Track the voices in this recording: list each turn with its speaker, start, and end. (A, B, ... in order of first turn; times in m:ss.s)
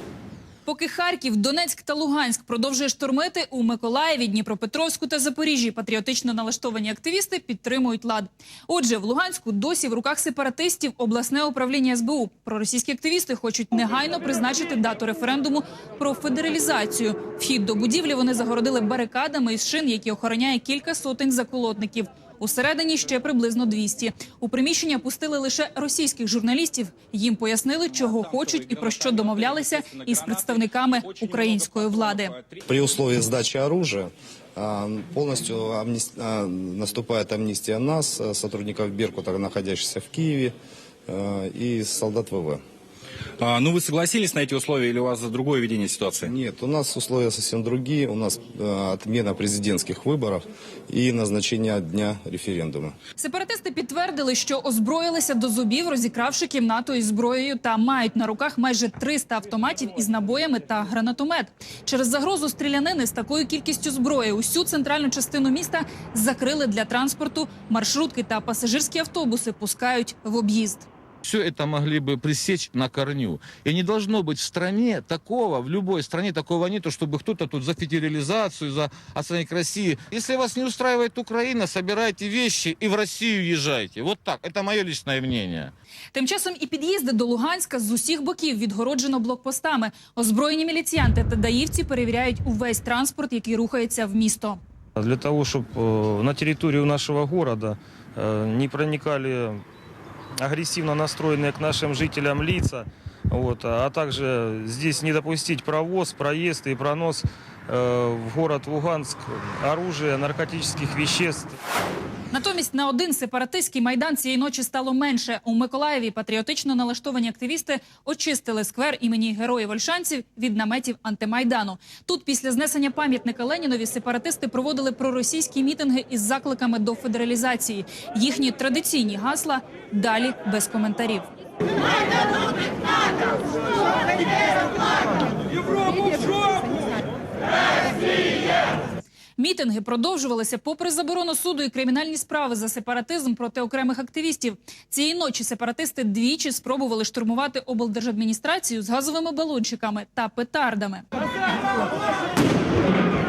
0:00.7-0:32.4 A
0:28.6-0:29.2 B
0:29.8-0:30.2 B
0:32.7-0:40.6 C
0:41.1-0:42.6 C
0:43.4-0:46.3 B
0:46.3-0:52.9 C
0:53.2-1:10.9 A
1:11.2-1:25.7 D
1:26.1-1:34.6 A
1:35.0-1:39.6 E
1:40.4-1:51.6 E
1:52.3-2:11.3 A
2:19.4-2:31.0 A